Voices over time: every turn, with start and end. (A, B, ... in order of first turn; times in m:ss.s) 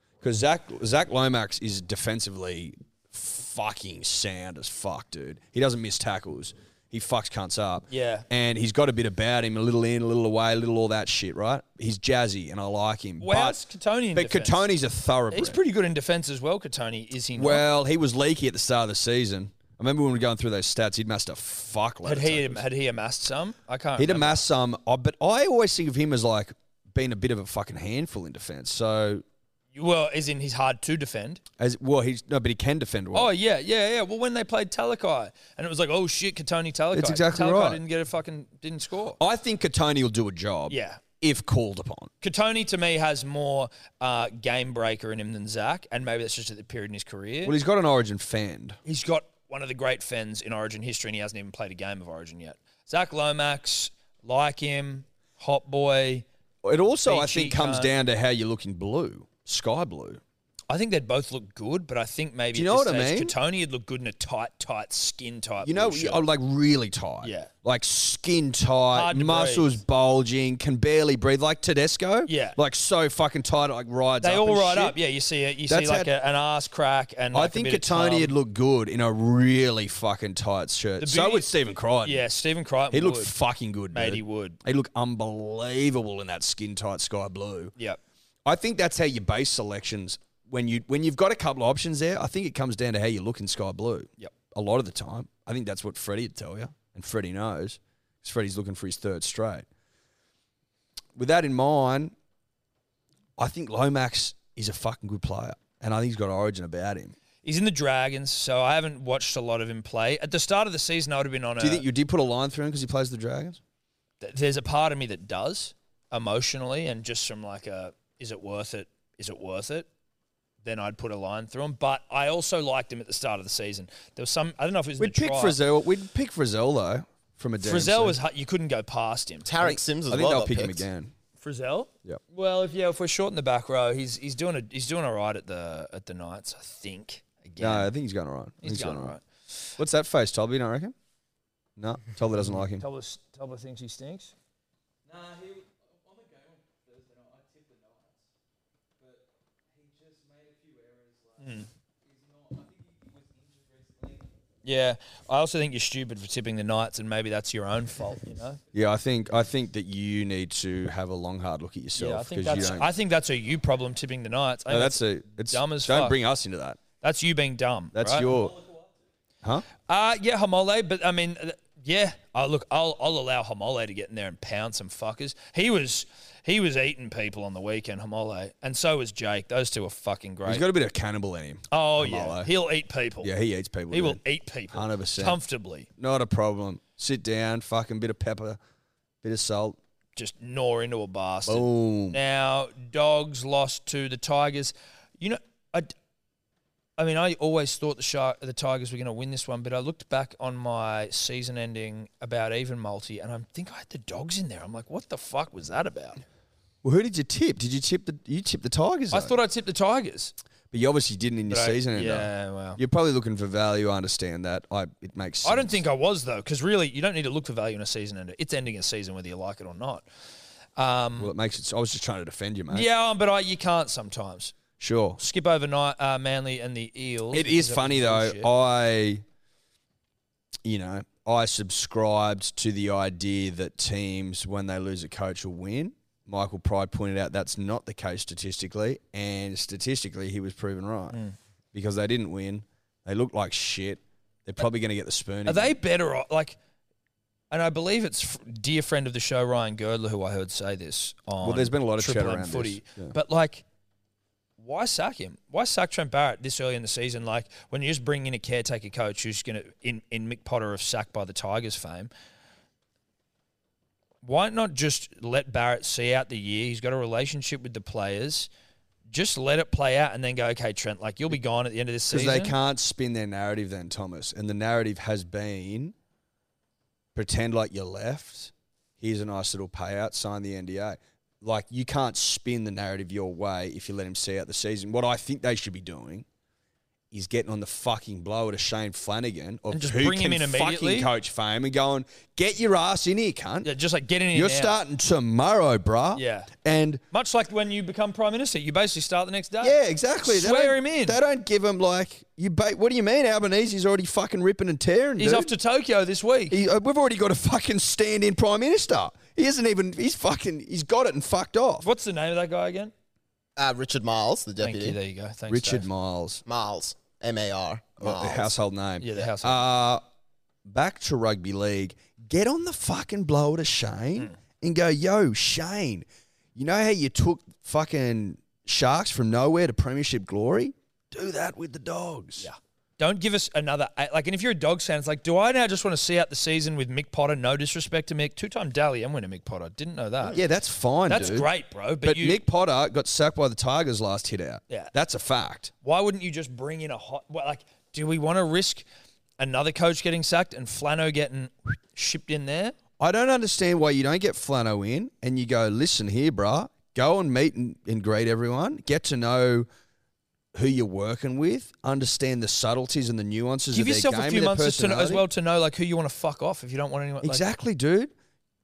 0:00.2-0:13.6 A
0:07.9-0:08.2 B
0:13.2-0:14.6 B
0:14.1-0:15.6 A
0:15.3-0:17.6 B
0:17.4-0:22.6 A
0:22.0-0:24.4 B
0:24.0-0:29.2 A
0:29.7-0:31.4 B
0:31.6-0:33.3 A
0:33.1-0:39.2 B
0:36.9-0:37.8 A
0:39.2-0:42.1 A
0:40.7-0:41.0 B
0:42.2-0:47.6 B
0:47.4-0:48.8 A
0:48.8-0:56.2 B
0:56.6-1:00.2 A
0:57.0-0:57.9 B
1:00.7-1:06.2 B
1:02.5-1:03.3 A
1:05.6-1:15.0 A
1:07.2-1:07.5 B
1:08.9-1:09.8 B
1:12.2-1:12.6 B
1:14.2-1:18.3 B
1:15.6-1:16.1 A
1:17.3-1:22.2 A
1:21.0-1:21.5 B
1:22.0-1:23.3 B
1:22.9-1:27.7 A
1:23.9-1:24.6 B
1:28.4-1:39.6 A
1:41.2-1:42.1 A
1:43.4-1:47.1 A
1:47.4-1:51.8 B
1:51.6-1:53.6 A
1:54.2-1:59.9 B
2:00.6-2:05.6 B
2:05.0-2:08.2 A
2:07.6-2:09.5 B
2:09.4-2:10.8 C
2:09.6-2:11.1 A
2:11.4-2:17.9 B
2:17.6-2:19.2 A
2:18.6-2:19.2 B
2:19.8-2:20.9 A
2:21.8-2:22.8 A
2:22.4-2:24.3 B
2:31.4-2:31.7 B
2:34.6-2:38.6 B
2:38.7-2:42.9 A
2:41.9-2:46.2 B
2:44.7-2:46.8 A
2:47.0-2:48.4 B
2:47.9-2:48.6 A
2:49.9-3:00.7 B
3:00.4-3:02.5 A
3:01.7-3:03.3 B
3:03.2-3:05.4 A
3:03.9-3:05.9 B
3:06.0-3:08.6 A
3:09.2-3:09.8 A
3:10.2-3:15.9 B
3:11.4-3:12.2 A
3:17.0-3:26.2 B
3:26.8-3:29.4 A
3:29.1-3:30.3 B
3:30.7-3:35.8 A
3:31.5-3:32.8 B
3:35.4-3:40.0 B
3:40.8-3:41.3 B
3:41.2-3:42.9 A
3:42.7-3:44.5 B
3:44.8-3:45.2 A
3:45.2-3:48.5 B
3:47.3-3:49.2 A
3:50.6-4:01.2 A
4:01.1-4:01.4 B
4:01.7-4:05.7 A
4:05.4-4:06.6 B
4:07.5-4:13.6 B
4:11.4-4:13.1 A
4:14.6-4:22.1 B
4:24.2-4:28.5 B
4:29.1-4:32.6 B
4:32.1-4:35.9 A
4:37.1-4:46.2 A
4:47.1-4:53.7 A
4:49.7-4:51.1 B
4:53.6-4:54.8 B
4:54.3-4:57.0 A
4:56.1-4:56.5 B
4:57.1-5:01.2 B
4:59.6-5:05.5 A
5:05.2-5:06.6 B
5:06.5-5:11.9 A
5:11.8-5:12.9 B
5:13.6-5:15.0 C
5:14.6-5:15.9 B
5:15.5-5:16.4 A
5:16.4-5:18.5 C
5:18.0-5:20.0 A
5:19.0-5:19.7 B
5:20.6-5:32.5 A
5:32.4-5:40.4 B
5:40.3-5:41.5 A
5:41.1-5:42.4 B
5:42.0-5:45.7 A
5:45.8-5:48.8 B
5:49.4-5:52.7 B
5:53.0-5:59.7 A
6:00.5-6:05.2 A
6:03.7-6:07.4 B
6:07.2-6:08.1 A